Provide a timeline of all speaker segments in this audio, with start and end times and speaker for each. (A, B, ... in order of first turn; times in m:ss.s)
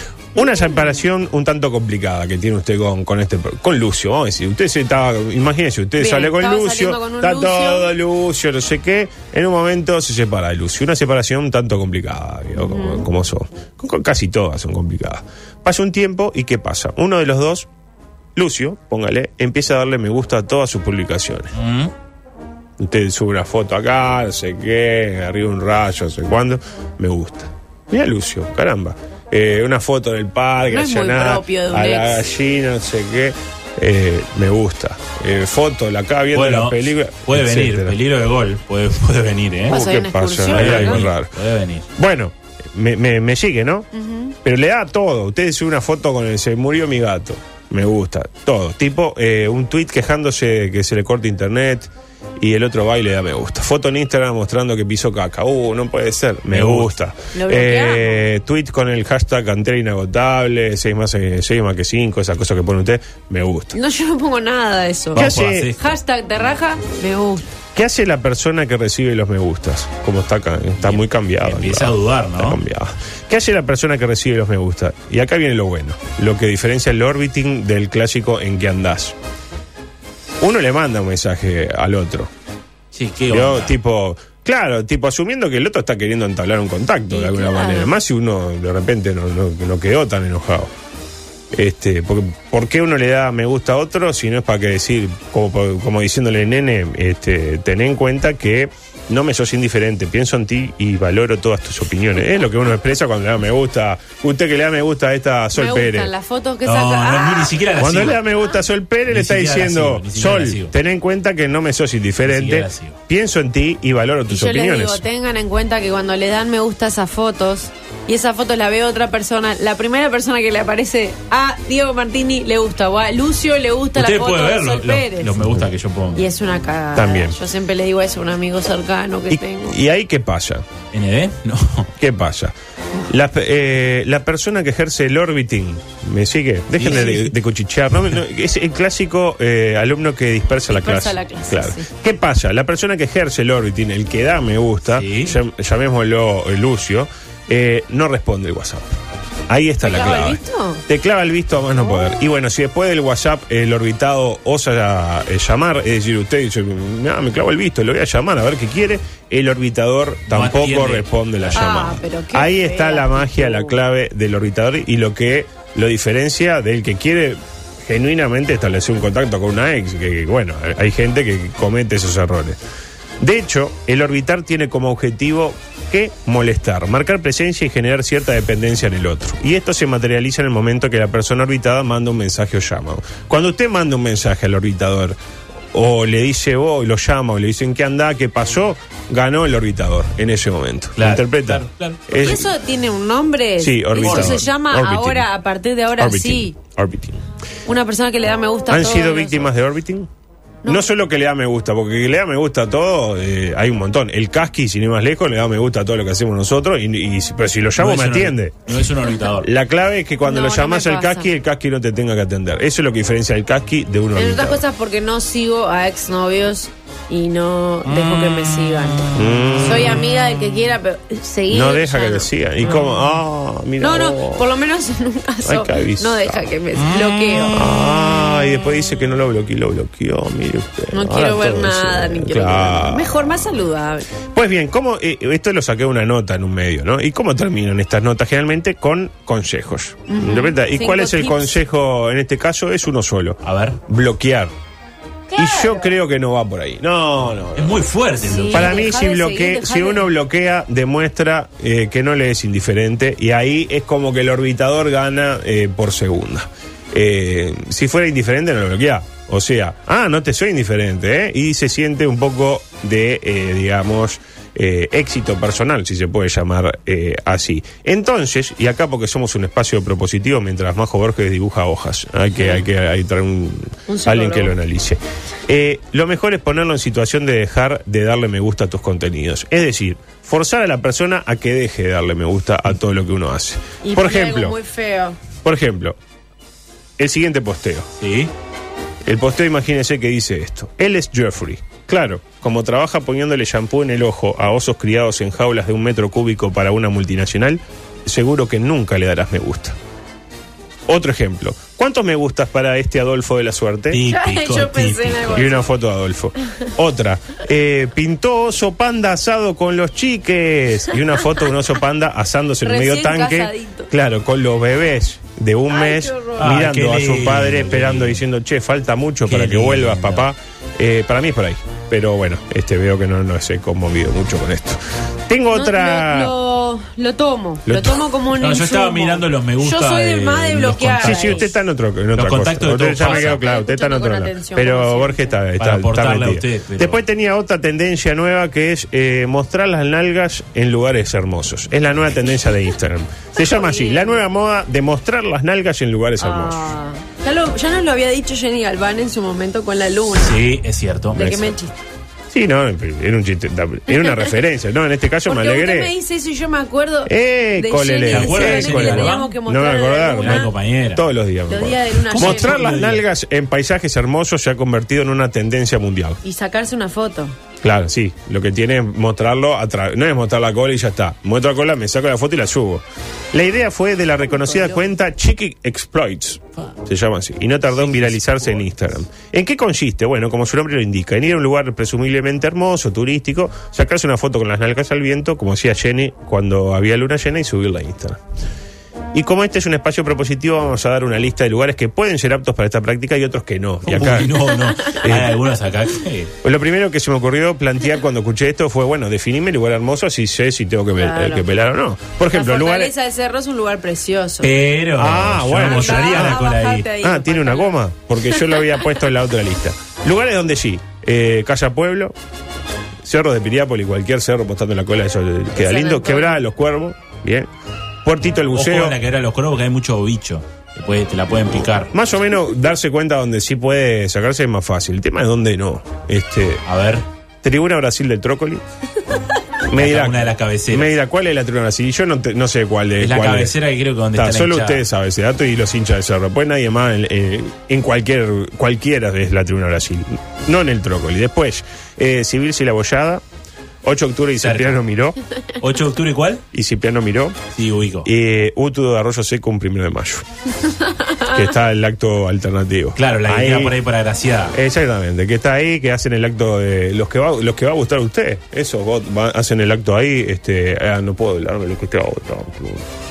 0:00.3-0:17.7 A
0:06.0-0:07.9 B
0:12.6-0:13.0 B
0:18.4-0:21.5 A
0:21.5-0:21.9 C
0:22.8-0:38.0 A
0:30.7-0:32.2 B
0:36.3-0:39.8 C
0:39.7-0:41.0 B
0:39.7-0:41.3 A
0:40.5-0:41.8 C
0:41.9-0:43.9 A
0:43.9-0:44.3 B
0:44.4-1:03.8 A
0:56.5-0:56.9 C
0:57.3-0:58.2 B
1:03.7-1:07.5 B
1:05.1-1:05.7 A
1:05.1-1:05.9 C
1:07.7-1:19.2 A
1:10.8-1:12.6 C
1:20.4-1:22.3 A
1:22.9-1:23.7 C
1:23.3-1:30.7 A
1:27.1-1:27.9 B
1:31.5-1:46.1 A
1:45.5-1:47.6 B
1:46.6-1:48.2 C
1:47.8-1:55.0 A
1:49.1-1:50.7 C
1:52.2-1:53.0 C
1:54.3-2:05.3 B
2:03.9-2:06.2 C
2:05.4-2:05.7 A
2:06.1-2:09.8 B
2:06.9-2:07.4 A
2:09.3-2:10.6 A
2:10.9-2:11.9 C
2:12.0-2:12.5 A
2:13.1-2:28.9 A
2:16.8-2:17.3 C
2:20.7-2:21.8 B
2:24.9-2:25.4 C
2:29.5-2:52.6 A
2:29.8-2:30.8 B
2:40.3-2:41.6 C
2:41.5-2:43.8 B
2:53.2-3:05.2 A
3:05.7-3:12.5 A
3:11.0-3:12.4 C
3:12.2-3:16.5 B
3:13.6-3:15.2 A
3:14.0-3:14.5 C
3:16.0-3:17.2 A
3:17.6-3:19.5 B
3:18.7-3:20.1 A
3:20.6-3:28.7 A
3:27.8-3:29.5 C
3:29.4-3:34.6 A
3:30.2-3:31.3 B
3:34.1-3:43.0 B
3:37.8-3:38.9 C
3:39.1-3:40.1 A
3:41.5-3:44.5 A
3:43.8-3:47.6 B
3:45.4-3:46.5 A
3:47.5-3:53.3 A
3:50.9-3:54.1 B
3:54.3-4:04.5 A
4:00.1-4:01.6 B
4:03.4-4:03.8 C
4:05.3-4:05.9 B
4:05.3-4:07.8 A
4:07.5-4:08.8 C
4:08.2-4:10.1 B
4:08.5-4:44.6 A
4:32.4-4:32.6 B
4:33.9-4:34.5 B
4:43.8-4:45.2 B
4:45.4-4:46.0 A
4:47.0-4:47.9 A
4:48.0-4:48.3 C
4:49.0-4:59.8 A
5:00.9-5:04.0 A
5:03.9-5:05.5 C
5:04.1-5:05.6 B
5:05.3-5:26.3 A
5:12.6-5:13.9 B
5:15.7-5:16.6 B
5:16.4-5:18.2 C
5:19.2-5:20.3 C
5:25.5-5:31.5 B
5:27.6-5:28.0 A
5:28.4-5:31.5 C
5:31.0-5:46.7 A
5:32.1-5:33.4 C
5:33.0-5:35.4 B
5:35.6-5:37.0 C
5:43.4-5:44.2 B
5:46.2-5:50.4 B
5:50.1-5:51.4 C
5:51.1-5:51.8 B
5:51.3-5:51.5 A
5:52.3-5:55.9 A
5:53.9-5:54.3 B
5:55.2-6:00.5 B
5:57.0-6:06.2 A
5:58.1-5:59.4 C
6:00.2-6:01.0 C
6:01.5-6:02.8 B
6:02.1-6:03.0 C
6:06.2-6:07.3 B
6:07.6-6:28.2 A
6:14.4-6:14.9 B
6:17.7-6:19.0 C
6:29.1-6:34.4 A
6:33.8-6:36.3 C
6:34.9-6:35.4 A
6:36.4-6:42.9 A
6:40.9-6:41.5 B
6:42.3-6:44.5 B
6:44.4-6:46.9 C
6:44.9-6:46.4 A
6:45.6-6:47.8 B
6:47.0-6:52.1 A
6:53.0-6:57.5 A
6:55.6-6:56.5 B
6:58.0-6:59.0 A
6:58.5-7:01.9 C
7:01.9-7:06.6 A
7:06.6-7:07.0 C
7:07.4-7:08.6 A
7:09.6-7:13.5 A
7:09.7-7:10.9 C
7:13.0-7:14.8 C
7:14.1-7:23.2 A
7:23.8-7:25.2 A
7:24.4-7:24.8 C
7:25.6-7:26.4 C
7:26.5-7:27.4 A
7:27.5-7:28.1 C
7:28.0-7:30.2 A
7:31.2-7:33.8 A
7:33.0-7:34.5 C
7:34.5-7:42.8 A